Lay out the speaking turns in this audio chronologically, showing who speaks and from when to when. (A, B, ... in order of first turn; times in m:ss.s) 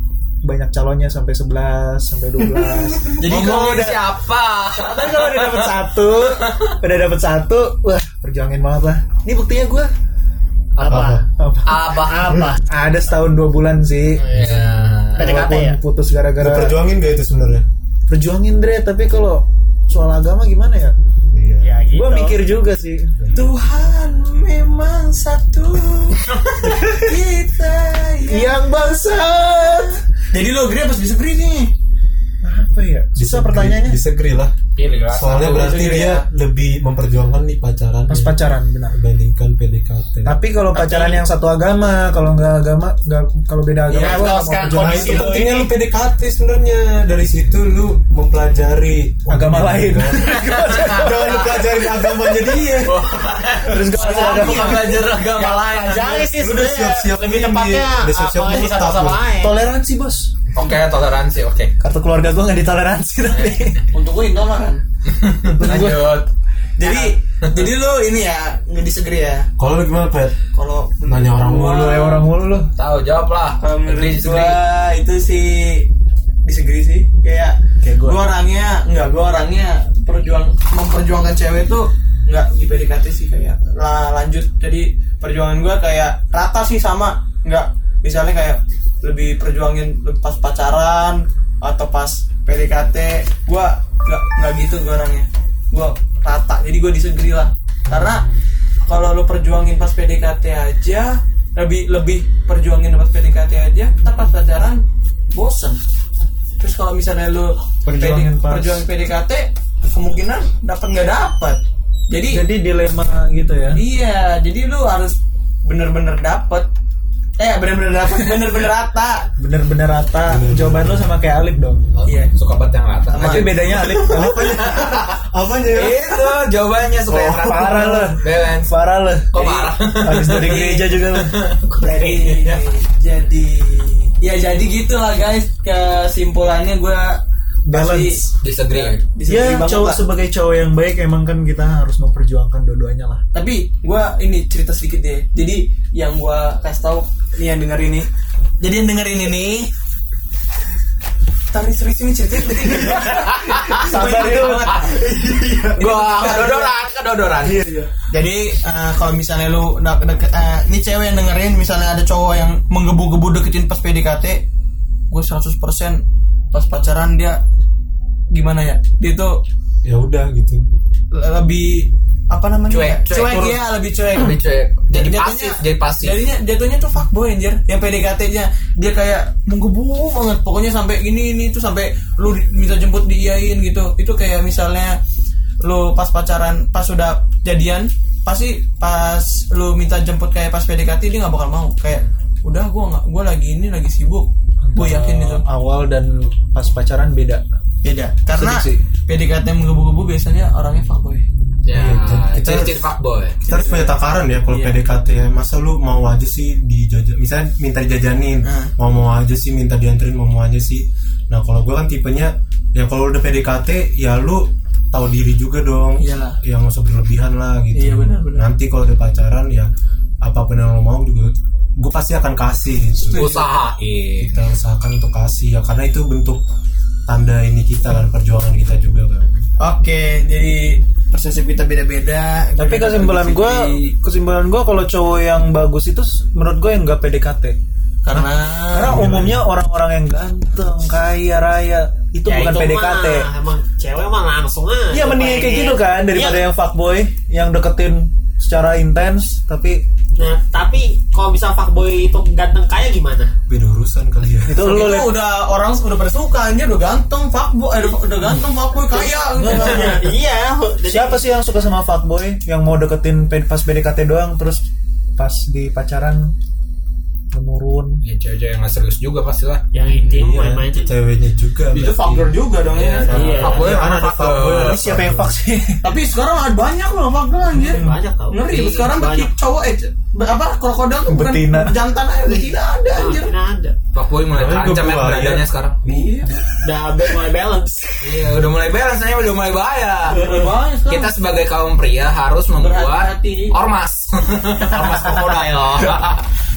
0:00.4-0:04.0 A
0:03.0-0:06.7 B
0:03.2-0:03.7 C
0:04.8-0:09.9 A
0:10.8-0:11.2 D
0:10.8-0:11.0 B
0:10.9-0:11.3 E
0:11.3-0:11.9 A
0:11.6-0:12.3 B
0:11.9-0:12.6 D
0:12.6-0:14.5 A
0:14.2-0:15.3 B
0:14.4-0:14.7 E
0:15.2-0:16.8 A
0:15.2-0:15.8 D
0:16.4-0:17.6 E
0:18.1-0:21.0 A
0:21.3-0:21.8 E
0:21.6-0:22.4 D
0:21.9-0:23.2 A
0:23.2-0:23.5 E
0:23.3-0:26.3 C
0:26.6-0:27.1 A
0:27.0-0:28.6 C
0:28.3-0:30.0 A
0:30.3-0:31.7 C
0:32.4-0:34.0 A
0:33.2-0:34.6 E
0:34.8-0:35.9 B
0:35.1-0:38.4 E
0:35.4-0:36.3 C
0:38.1-0:39.0 A
0:38.9-0:40.4 E
0:40.2-0:45.5 A
0:40.8-0:41.2 B
0:43.9-0:45.6 B
0:43.9-0:45.7 D
0:43.9-0:53.0 E
0:49.3-0:51.6 A
0:50.1-0:56.3 B
0:53.6-0:55.0 A
0:54.0-0:54.7 D
0:55.3-0:56.3 C
0:55.4-0:59.6 D
0:56.4-0:59.4 E
0:59.4-1:00.3 A
1:00.5-1:01.7 B
1:01.8-1:03.9 A
1:03.3-1:03.8 B
1:03.9-1:04.8 C
1:05.0-1:06.3 B
1:05.6-1:06.2 A
1:06.8-1:09.5 C
1:09.6-1:10.4 E
1:10.5-1:12.3 C
1:11.0-1:12.2 E
1:11.4-1:12.7 A
1:12.8-1:14.6 B
1:13.6-1:15.9 C
1:16.4-1:38.3 C
1:17.8-1:18.2 A
1:37.9-1:38.3 A
1:38.9-1:44.8 C
1:45.3-1:45.8 C
1:46.6-1:52.4 C
1:47.8-1:48.8 A
1:52.3-1:53.8 A
1:53.7-1:56.7 C
1:57.4-1:59.3 C
1:59.4-2:01.9 A
2:00.3-2:01.1 E
2:02.0-2:08.7 B
2:02.1-2:02.3 C
2:03.1-2:03.8 C
2:03.2-2:04.4 A
2:04.1-2:06.4 E
2:07.1-2:08.0 E
2:07.4-2:11.6 A
2:09.3-2:12.7 B
2:09.4-2:09.7 C
2:10.5-2:10.8 C
2:11.7-2:20.0 C
2:17.7-2:18.4 A
2:18.4-2:19.0 B
2:19.3-2:23.2 A
2:23.3-2:28.1 C
2:28.6-2:29.7 C
2:31.5-2:35.1 C
2:32.7-2:37.6 B
2:33.8-2:35.6 A
2:35.7-2:36.7 C
2:37.4-2:37.9 A
2:38.1-2:44.4 C
2:45.1-2:47.4 C
2:48.3-2:49.4 C
2:49.8-2:50.6 E
2:51.1-2:54.4 C
2:52.7-2:56.2 B
2:54.9-3:05.0 C
3:05.6-3:15.4 C
3:14.6-3:17.4 A
3:17.8-3:21.3 C
3:18.3-3:18.8 A
3:21.6-3:23.4 B
3:21.7-3:22.8 E
3:23.4-3:24.0 C
3:23.4-3:39.7 E
3:24.5-3:24.8 C
3:28.4-3:28.7 C
3:36.0-3:36.4 C
3:37.8-3:38.5 C
3:40.2-3:43.4 E
3:43.0-3:43.5 C
3:43.2-3:44.3 B
3:44.2-3:46.4 E
3:47.1-3:49.4 E
3:49.6-3:54.0 C
3:52.6-3:57.6 A
3:58.0-3:59.2 C
3:58.7-4:03.3 A
3:58.9-3:59.4 E
4:02.3-4:06.4 D
4:04.9-4:09.8 A
4:10.2-4:13.3 D
4:13.5-4:14.8 E
4:14.5-4:15.2 A
4:14.6-4:20.1 C
4:18.9-4:21.2 D
4:19.4-4:19.8 A
4:20.9-4:26.3 A
4:27.3-4:28.0 A
4:28.0-4:29.6 B
4:29.7-4:30.9 D
4:30.1-4:35.4 E
4:31.7-4:33.8 C
4:32.7-4:34.8 B
4:33.1-4:33.7 D
4:34.5-4:35.9 A
4:35.8-4:43.3 C
4:37.5-4:39.3 D
4:37.6-4:38.0 A
4:41.1-4:41.8 A
4:42.3-4:43.8 D
4:43.9-4:45.8 B
4:44.3-4:46.5 E
4:45.8-4:46.3 C
4:46.6-4:47.9 D
4:48.0-4:50.4 B
4:50.1-4:51.1 C
4:50.9-4:56.3 B
4:52.6-4:53.6 C